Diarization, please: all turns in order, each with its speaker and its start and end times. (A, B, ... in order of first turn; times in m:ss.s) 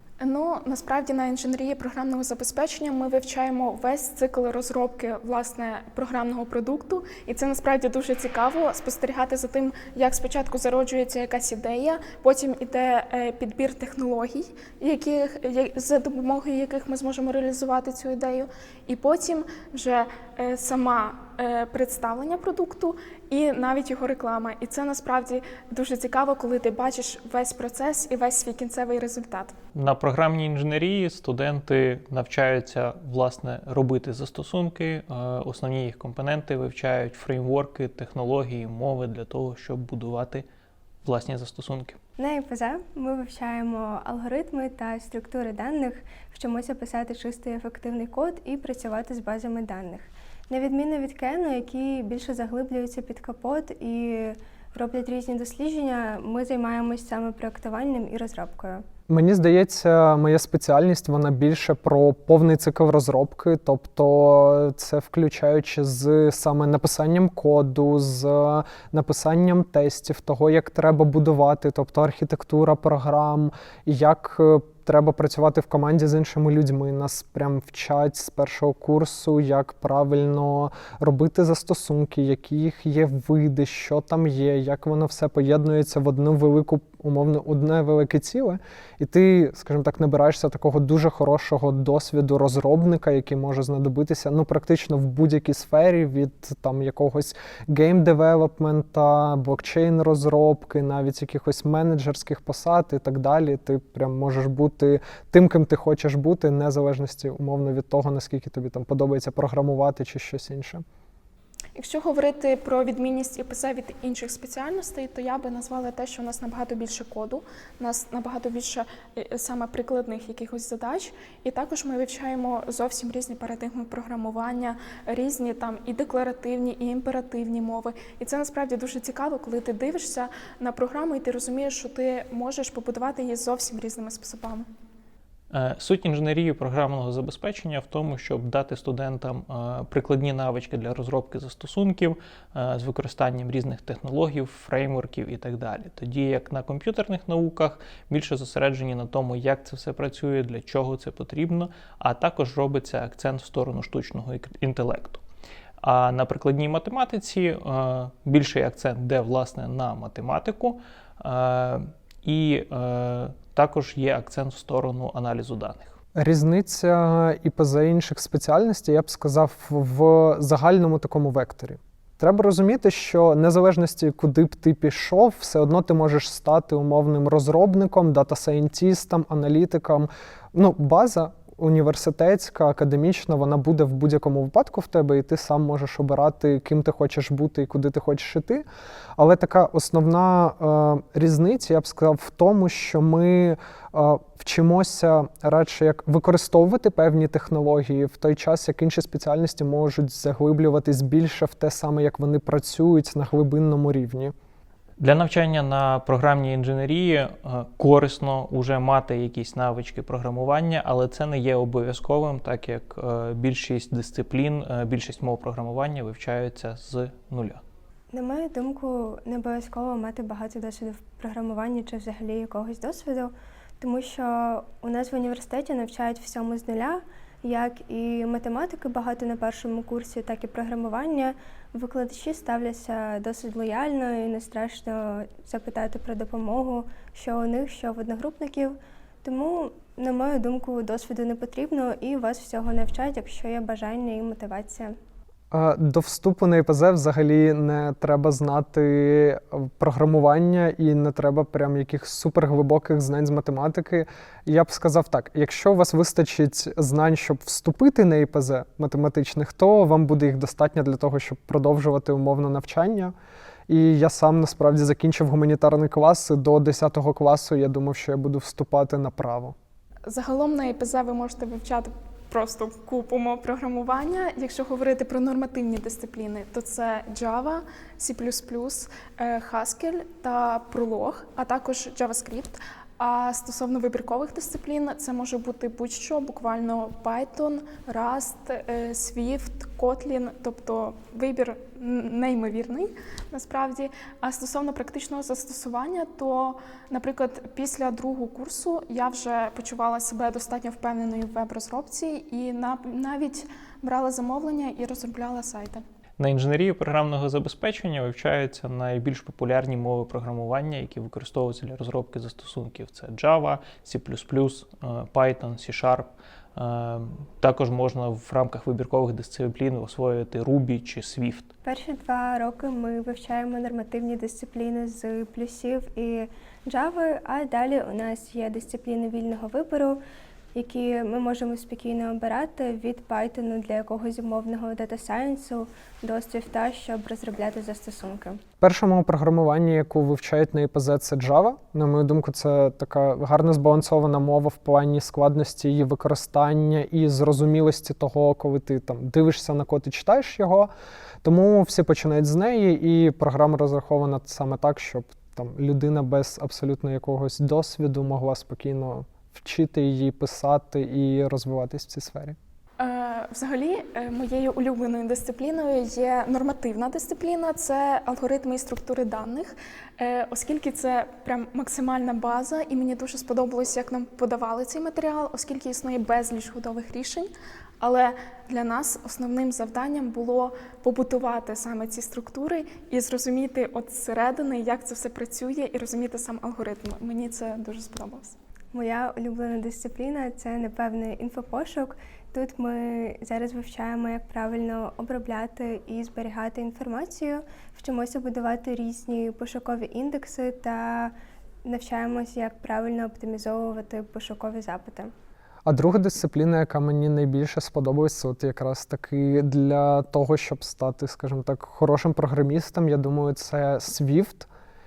0:00.2-0:29.6 A
0:29.7-0:40.5 B
0:41.0-0:42.0 B
0:42.2-0:58.8 C
0:59.1-1:50.8 D
1:51.8-2:14.7 A
2:15.5-2:35.2 B
2:35.8-2:46.0 B
2:46.2-3:08.6 D
3:09.2-3:24.3 D
3:25.0-3:37.6 B
3:38.1-4:05.0 C
4:05.5-4:23.1 D
4:23.7-4:29.6 D
4:30.1-5:05.8 A
5:06.2-5:21.5 B
5:21.6-5:30.0 C
5:30.6-5:38.4 C
5:38.6-5:50.7 D
5:51.2-6:02.4 D
6:02.8-6:28.4 A
6:28.7-6:45.1 C
6:45.7-6:54.5 D